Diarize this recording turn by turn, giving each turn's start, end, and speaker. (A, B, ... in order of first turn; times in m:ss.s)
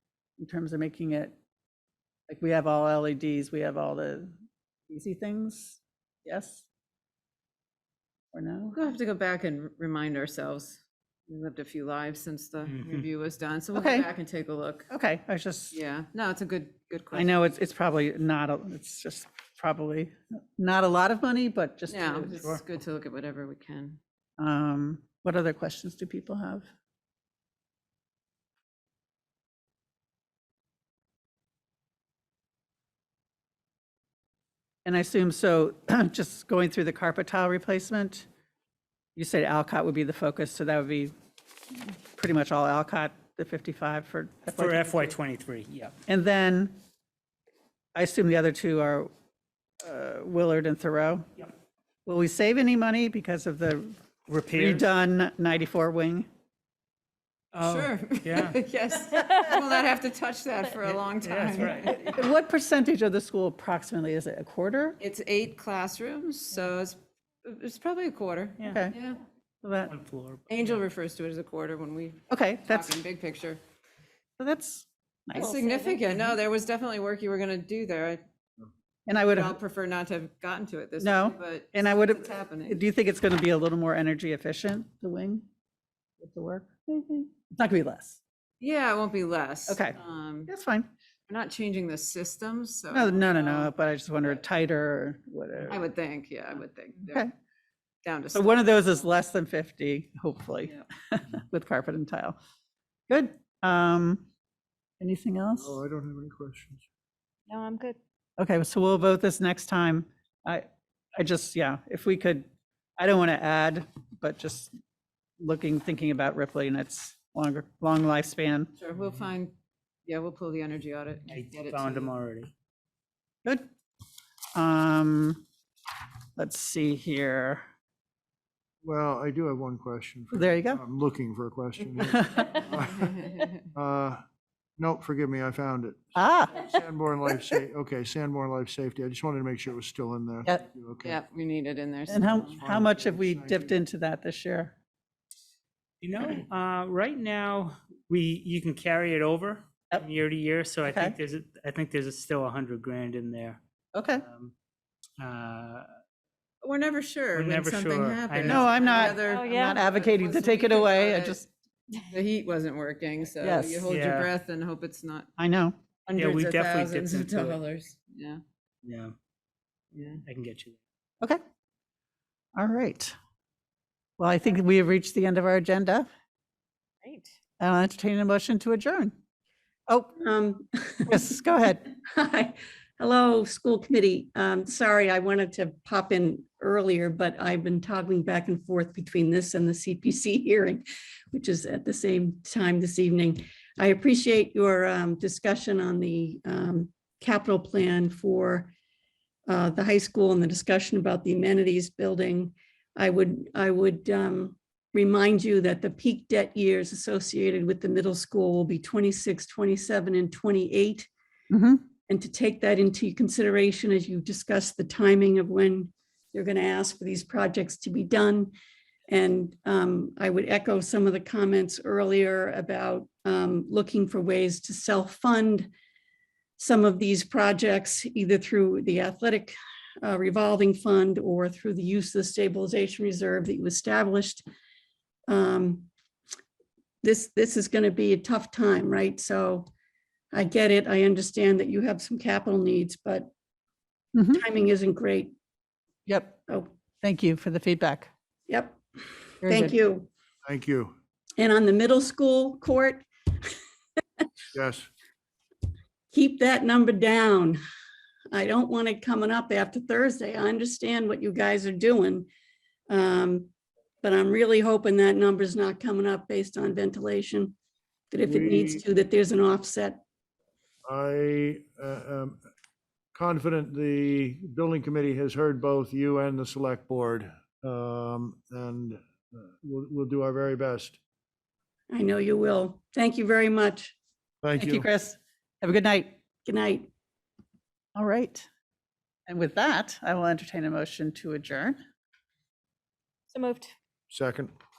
0:00.4-0:01.3 A
0:02.3-0:04.3 A
0:04.9-0:06.6 A
0:08.3-0:08.8 A
0:08.7-0:14.9 B
0:12.6-0:13.0 C
0:13.7-0:14.1 A
0:14.9-0:15.7 A
0:15.7-0:17.4 B
0:17.1-0:22.3 A
0:21.9-0:24.0 B
0:24.4-0:26.6 A
0:34.8-0:38.3 A
0:39.2-0:41.1 A
0:41.9-0:45.1 A
0:44.5-0:45.9 C
0:46.1-0:46.7 A
0:47.9-0:49.1 A
0:49.8-0:51.5 A
0:52.0-0:54.0 A
0:54.3-0:54.8 C
0:54.5-0:56.3 A
0:57.5-0:58.6 C
0:57.6-1:02.2 B
1:00.8-1:01.9 C
1:01.8-1:05.0 A
1:05.0-1:09.2 B
1:08.6-1:08.9 C
1:08.6-1:08.9 A
1:09.6-1:09.9 A
1:09.9-1:10.8 C
1:10.5-1:13.6 B
1:12.3-1:13.0 A
1:14.4-1:15.5 A
1:15.3-1:18.2 B
1:15.4-1:16.0 D
1:19.1-1:19.6 A
1:19.2-1:22.8 B
1:21.0-1:25.4 A
1:26.2-1:28.2 A
1:28.6-1:30.5 B
1:29.7-1:30.9 A
1:31.3-1:34.4 B
1:32.9-1:35.8 A
1:35.7-1:37.3 B
1:37.1-1:37.3 A
1:38.0-1:39.0 B
1:38.3-1:42.4 A
1:43.1-1:44.2 A
1:45.0-1:45.8 A
1:45.6-1:46.8 E
1:47.5-1:48.0 D
1:48.4-1:54.8 A
1:55.4-1:58.7 A
1:58.8-1:59.5 B
2:00.0-2:02.1 B
2:01.3-2:02.5 C
2:04.5-2:05.4 A
2:06.4-2:07.7 A
2:08.8-2:14.2 E
2:10.3-2:10.8 A
2:12.1-2:12.6 A
2:12.9-2:13.6 B
2:14.8-2:21.2 E
2:16.2-2:16.7 A
2:21.0-2:22.6 B
2:22.1-2:24.8 A
2:22.2-2:23.7 E
2:26.0-2:33.6 C
2:30.8-2:31.2 A
2:33.9-2:34.2 A
2:34.2-2:34.5 C
2:35.2-2:35.9 C
2:36.6-2:41.4 B
2:37.3-2:38.8 C
2:38.4-2:41.5 A
2:38.9-2:39.8 D
2:42.1-2:45.3 B
2:43.4-2:43.9 A
2:43.9-2:44.3 C
2:45.4-2:45.8 A
2:46.1-2:48.4 B
2:46.1-2:47.6 C
2:48.8-2:49.1 C
2:49.9-2:50.2 B
2:50.2-2:50.8 C
2:52.6-2:53.2 A
2:54.2-2:56.1 A
2:57.0-2:57.3 D
2:57.6-2:59.1 A
2:59.9-3:00.1 A
3:00.2-3:01.1 F
3:01.0-3:01.8 A
3:01.9-3:18.7 F
3:19.5-3:31.1 F
3:31.5-3:31.8 A
3:32.1-3:38.5 F
3:39.1-3:45.7 F
3:46.6-3:54.4 F
3:55.3-3:55.9 F
3:57.0-3:59.7 F
4:00.3-4:03.3 F
4:04.1-4:04.4 A
4:04.3-4:05.3 F
4:06.1-4:06.4 A
4:07.0-4:08.1 A
4:08.5-4:08.8 F
4:09.4-4:09.7 A
4:09.4-4:10.1 F
4:10.4-4:10.9 E
4:11.4-4:13.6 F
4:14.5-4:14.9 E
4:16.1-4:17.6 F
4:18.3-4:22.3 F
4:22.9-4:23.5 F
4:24.0-4:27.5 F
4:28.1-4:30.0 F
4:28.2-4:28.8 E
4:30.8-4:32.4 E
4:33.1-4:41.0 E
4:41.9-4:43.9 F
4:44.4-4:44.9 E
4:44.6-4:46.1 A
4:46.4-4:46.9 F
4:47.9-4:48.5 A
4:49.3-4:51.8 A
4:53.3-4:53.7 D
4:54.1-4:54.5 E